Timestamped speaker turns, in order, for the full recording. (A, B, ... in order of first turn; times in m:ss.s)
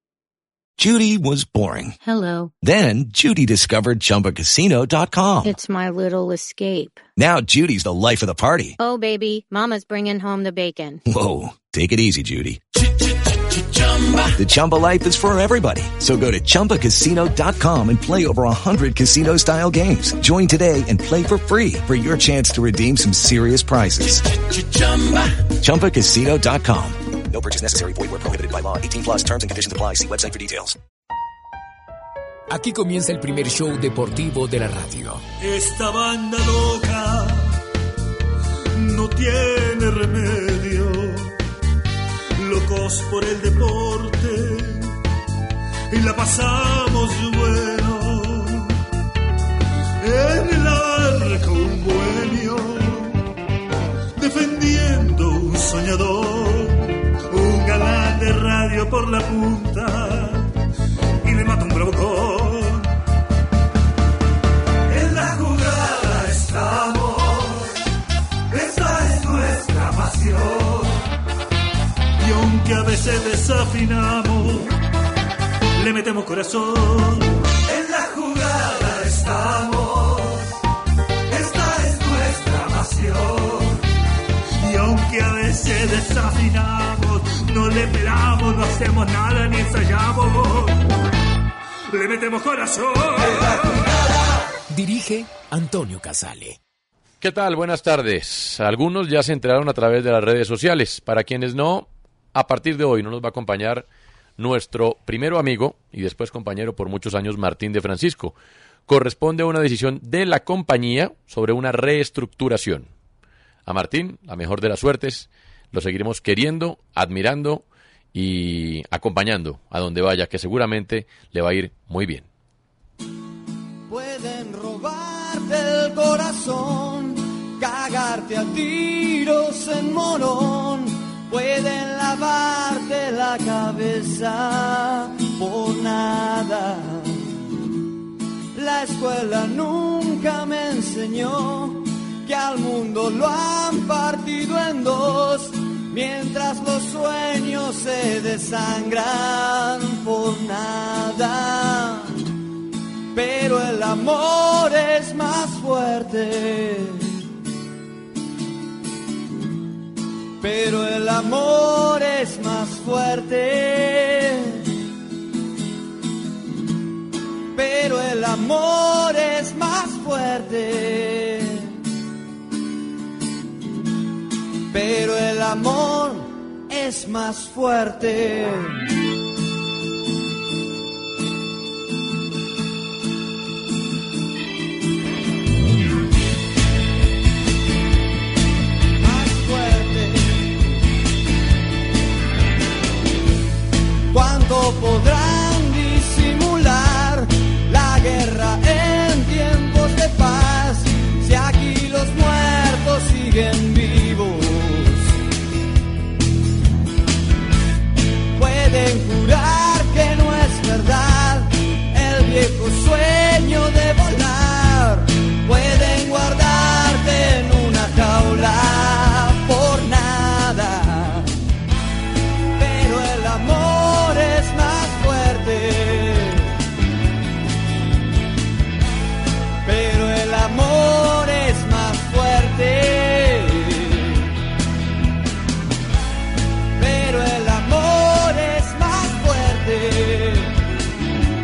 0:00.8-0:02.0 A
0:02.0-0:02.6 B
0:02.6-0:05.5 A
0:05.4-0:07.0 B
0:07.2-0:08.8 A
0:08.8-0:11.0 B
0:11.1-0:12.6 A
0:14.3-0:30.8 A
0:32.5-0:35.2 C
0:35.4-0:37.5 D
0:38.7-0:41.3 D
0:42.4-0:44.9 D
0:45.9-0:48.8 D
0:50.0-0:53.2 D
0:54.2-1:00.5 D
1:01.2-1:02.9 D
1:04.9-1:07.8 D
1:08.5-1:11.0 D
1:12.2-1:14.7 D
1:15.8-1:20.5 D
1:21.3-1:23.8 D
1:24.6-1:30.8 D
1:31.9-1:33.8 D
1:34.7-1:36.6 C
1:37.2-1:43.8 E
1:44.4-1:48.3 E
1:48.9-1:52.9 E
1:53.6-2:02.2 E
2:03.9-2:17.2 F
2:18.5-2:32.2 F
2:33.1-2:37.2 F
2:40.4-2:44.7 F
2:47.5-2:51.8 F
2:54.7-2:58.9 F
3:09.0-3:10.6 F
3:14.1-3:25.2 F
3:28.3-3:41.3 F
3:42.6-3:46.5 F
3:49.6-3:54.3 F
3:56.8-4:00.6 F